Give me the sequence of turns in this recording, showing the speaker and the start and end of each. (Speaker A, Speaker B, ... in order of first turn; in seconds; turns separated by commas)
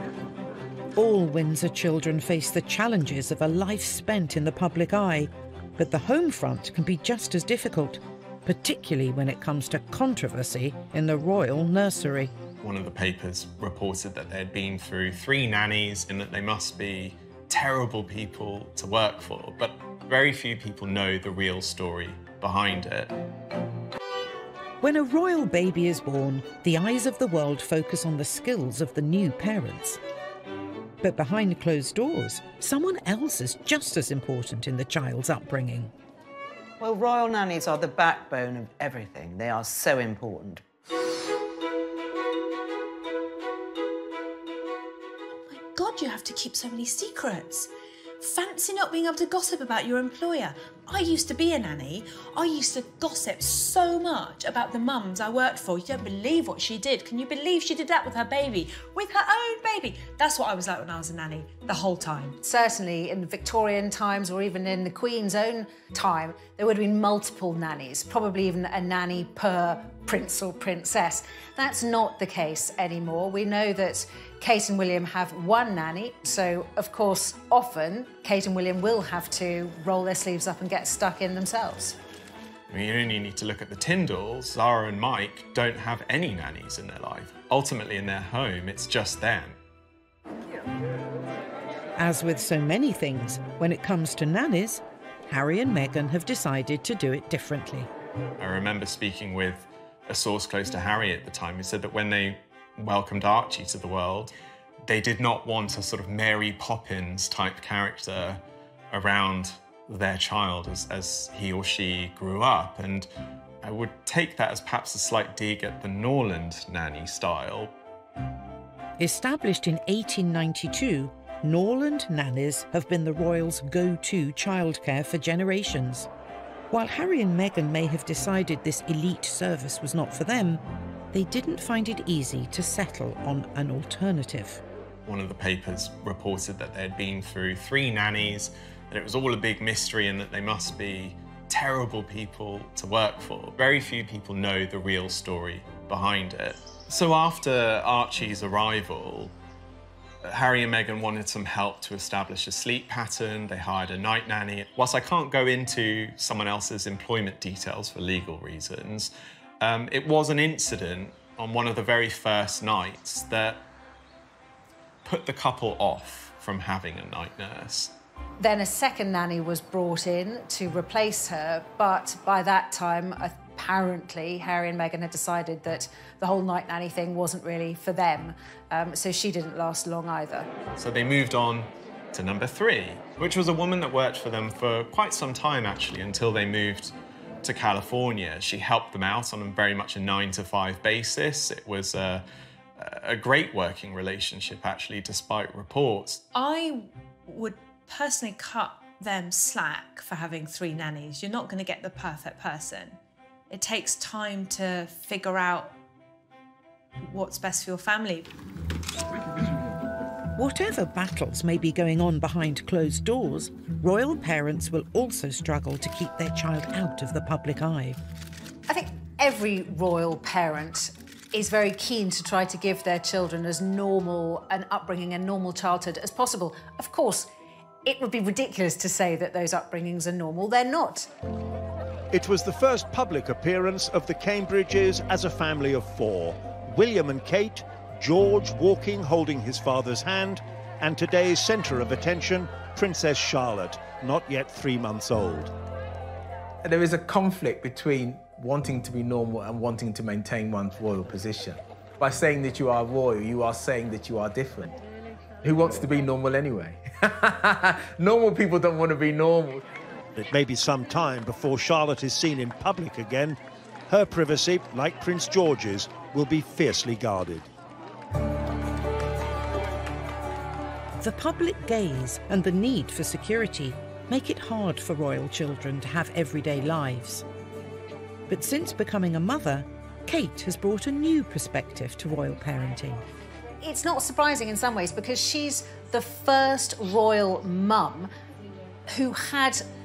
Speaker A: 1.0-12.3, Speaker B: 12.6-23.1, Speaker A: 24.8-30.0, Speaker A: 31.0-35.9, Speaker C: 36.8-40.6, Speaker D: 45.3-62.4, Speaker E: 62.4-82.0, Speaker B: 82.7-89.6, Speaker A: 92.0-97.9, Speaker B: 98.4-104.3, Speaker B: 104.8-113.1, Speaker B: 113.6-117.7, Speaker A: 119.0-126.1, Speaker A: 126.7-134.6, Speaker B: 135.1-149.3, Speaker B: 150.2-163.6, Speaker B: 165.0-167.9, Speaker E: 168.4-180.5, Speaker B: 180.8-192.2, Speaker B: 192.8-196.2, Speaker D: 196.3-203.0, Speaker D: 203.5-205.7, Speaker D: 207.0-208.3, Speaker A: 210.4-218.0, Speaker E: 218.7-227.3, Speaker E: 227.8-231.1, Speaker F: 232.1-245.5, Speaker G: 246.6-254.8, Speaker G: 255.4-259.6, Speaker F: 260.1-267.5, Speaker A: 271.0-277.2, Speaker A: 278.3-283.0, Speaker E: 283.6-288.1, Speaker E: 288.9-289.6